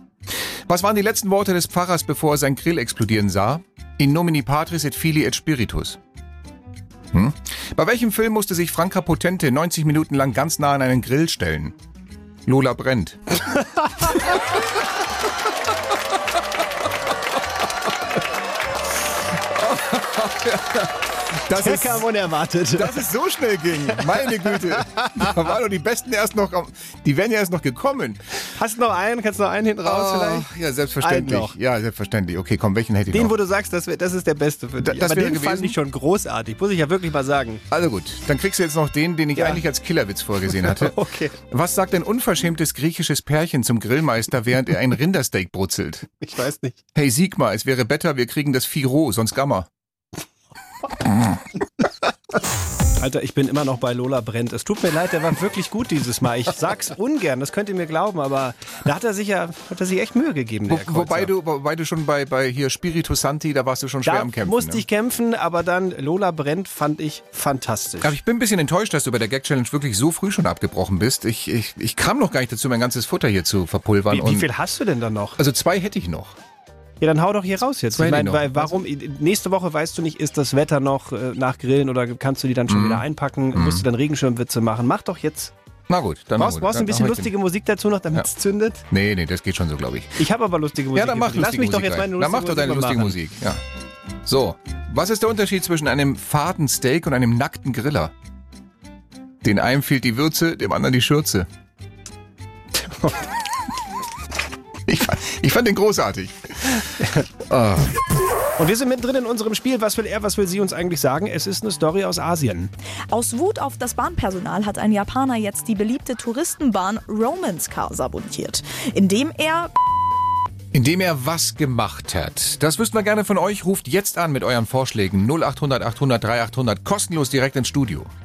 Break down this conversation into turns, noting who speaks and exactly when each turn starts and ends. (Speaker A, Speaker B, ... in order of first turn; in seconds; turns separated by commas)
Speaker A: 0.7-6.0, Speaker A: 7.1-11.8, Speaker A: 12.4-13.4, Speaker A: 19.4-22.1, Speaker B: 21.5-23.0, Speaker A: 22.7-28.2, Speaker B: 24.9-25.2, Speaker B: 28.5-30.5, Speaker A: 29.8-33.3, Speaker B: 31.0-31.6, Speaker B: 33.1-37.6, Speaker A: 34.8-35.8, Speaker A: 37.7-46.1, Speaker B: 39.4-39.6, Speaker B: 40.5-41.4, Speaker B: 46.2-46.8, Speaker A: 46.9-49.7, Speaker B: 53.0-61.3, Speaker A: 60.7-64.8, Speaker B: 64.0-68.2, Speaker A: 68.0-74.5, Speaker B: 74.1-75.4, Speaker A: 75.4-76.4, Speaker B: 77.0-85.5, Speaker A: 77.9-78.8, Speaker A: 82.7-83.8, Speaker A: 85.9-87.3, Speaker B: 86.4-88.8, Speaker A: 88.9-90.2, Speaker B: 90.2-93.2, Speaker A: 90.9-93.6, Speaker A: 94.2-98.1, Speaker A: 99.4-101.5, Speaker B: 102.8-103.2, Speaker A: 104.8-106.8, Speaker A: 107.4-108.0, Speaker B: 108.6-112.7, Speaker C: 113.1-119.7, Speaker A: 120.7-128.1